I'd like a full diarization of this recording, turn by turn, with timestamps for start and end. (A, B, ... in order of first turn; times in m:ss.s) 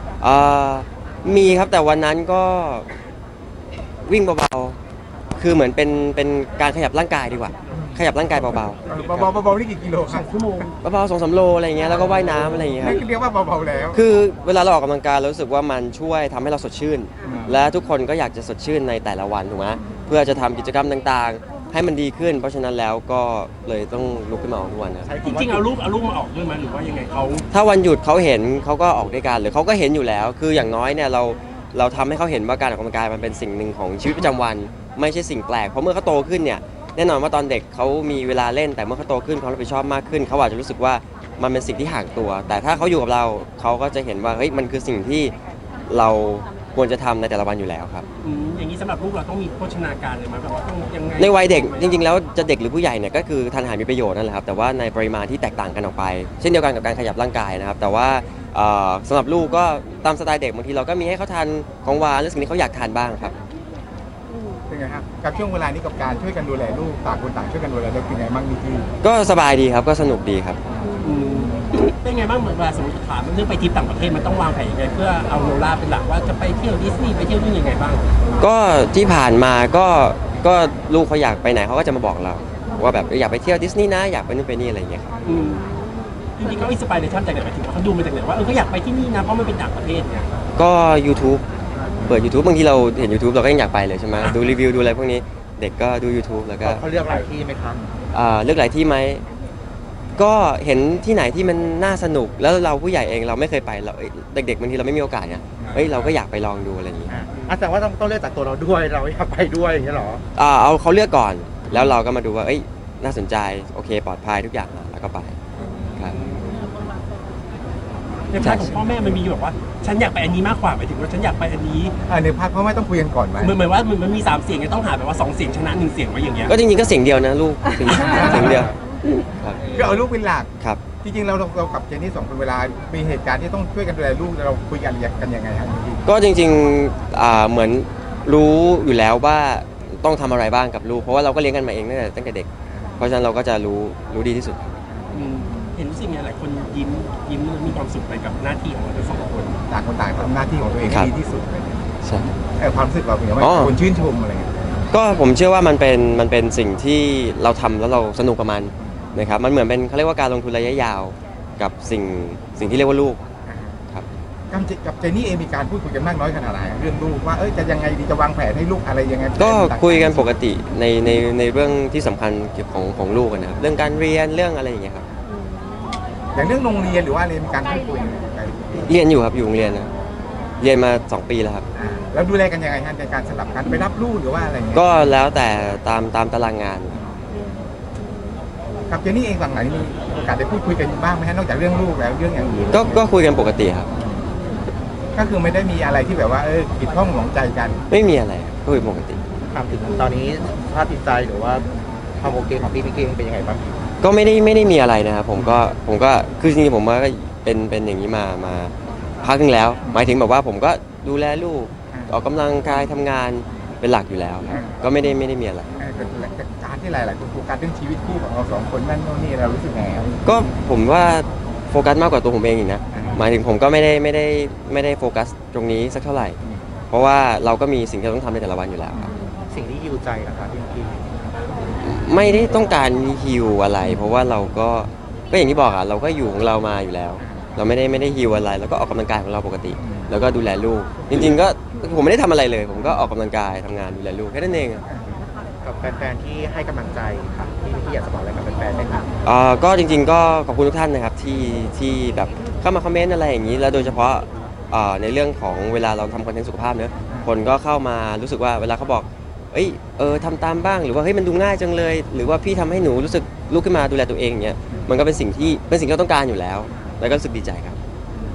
0:00.2-0:02.9 A
0:04.0-0:04.8 A
0:05.4-0:09.3 A
0:07.7-0:08.0 B
0:08.8-0:10.3 B
0:10.0-0:10.7 C
0:10.8-0:13.0 A
0:12.8-0:14.0 B
0:13.9-0:25.1 A
0:17.2-0:17.6 B
0:25.0-0:25.7 D
0:25.2-0:27.4 C
0:27.5-0:45.3 A
0:45.9-0:48.0 A
0:48.2-0:51.9 C
0:51.2-1:03.3 A
1:04.7-1:08.9 B
1:09.0-1:10.6 A
1:10.7-1:11.0 B
1:11.0-1:18.2 C
1:18.4-1:25.1 A
1:25.2-1:25.8 C
1:26.4-1:30.3 C
1:30.6-1:31.4 A
1:32.0-1:36.8 A
1:36.6-1:37.8 D
1:38.1-1:39.2 A
1:40.2-1:47.2 A
1:45.6-1:46.1 B
1:47.1-1:50.2 D
1:50.3-1:55.4 A
1:56.0-1:56.2 A
1:56.1-1:56.4 C
1:58.3-2:01.9 C
1:58.4-1:58.7 A
1:58.8-1:59.2 B
2:02.1-2:03.6 B
2:03.4-2:06.5 C
2:06.5-2:08.7 A
2:07.8-2:08.7 B
2:09.3-2:09.6 A
2:09.6-2:16.1 B
2:16.0-2:22.5 A
2:22.7-2:23.0 B
2:23.0-2:24.7 A
2:24.9-2:25.7 B
2:25.1-2:29.6 C
2:29.7-2:31.8 B
2:32.5-2:34.5 B
2:33.4-2:33.7 A
2:34.9-2:43.2 A
2:43.4-2:43.8 B
2:44.5-2:50.3 B
2:49.4-2:55.0 A
2:56.3-2:59.0 B
2:58.8-2:59.9 A
3:00.6-3:01.6 A
3:01.7-3:05.0 B
3:04.7-3:06.9 A
3:06.9-3:07.3 B
3:08.9-3:13.0 B
3:12.7-3:13.9 A
3:14.0-3:14.2 B
3:15.1-3:17.8 B
3:17.9-3:19.2 A
3:19.5-3:21.6 D
3:22.2-3:23.8 D
3:24.0-3:35.7 A
3:25.3-3:25.6 B
3:29.8-3:30.1 B
3:31.9-3:32.2 B
3:34.4-3:34.8 B
3:35.8-3:40.2 B
3:40.2-3:46.4 A
3:42.9-3:43.2 B
3:46.9-3:49.1 A
3:49.5-3:51.1 D
3:51.8-4:04.8 A
3:57.2-3:57.6 B
3:59.8-4:00.1 B
4:04.8-4:05.2 B
4:05.6-4:09.1 D
4:09.2-4:27.8 A